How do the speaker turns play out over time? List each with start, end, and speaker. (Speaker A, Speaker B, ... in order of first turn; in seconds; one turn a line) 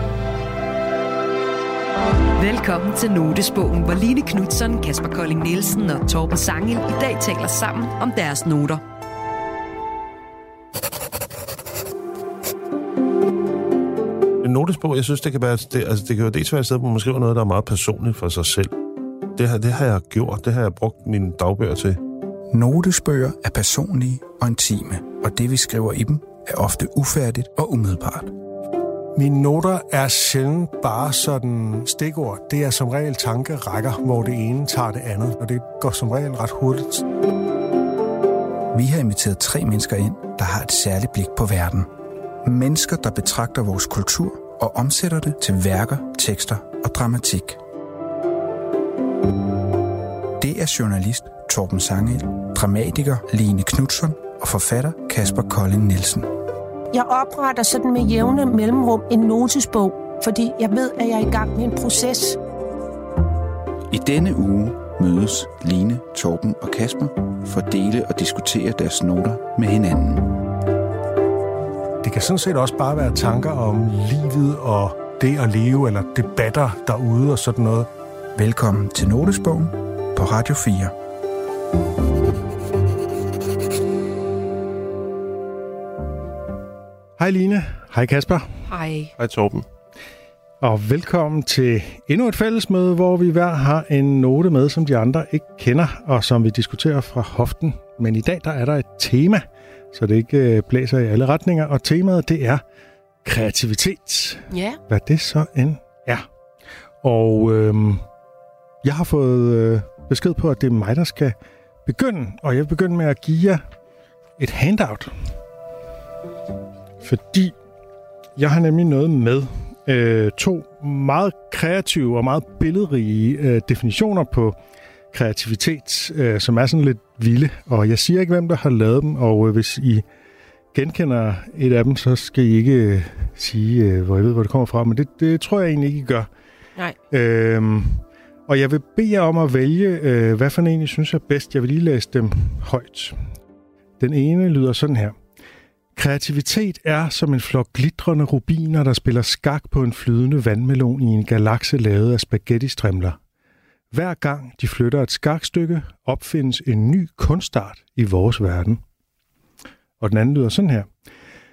Speaker A: 2.4-8.8
Speaker B: 14.4-18.7
Speaker B: 19.3-22.0
Speaker C: 22.5-28.4
Speaker D: 29.1-37.1
Speaker C: 38.7-41.9
Speaker C: 42.4-47.6
Speaker C: 50.4-56.3
Speaker E: 56.9-62.4
Speaker C: 63.9-70.5
Speaker D: 72.0-77.9
Speaker C: 78.3-81.0
Speaker D: 87.2-88.5
Speaker E: 88.7-89.1
Speaker B: 89.2-89.7
Speaker D: 90.6-102.6
Speaker D: 103.2-106.3
Speaker E: 104.5-104.8
Speaker D: 107.0-108.0
Speaker D: 108.8-113.6
Speaker D: 114.4-115.1
Speaker D: 117.0-117.5
Speaker D: 118.4-124.6
Speaker D: 125.1-130.1
Speaker D: 130.7-136.3
Speaker D: 137.1-143.2
Speaker D: 144.0-145.2
Speaker D: 145.9-153.2
Speaker D: 153.9-158.8
Speaker D: 160.0-160.9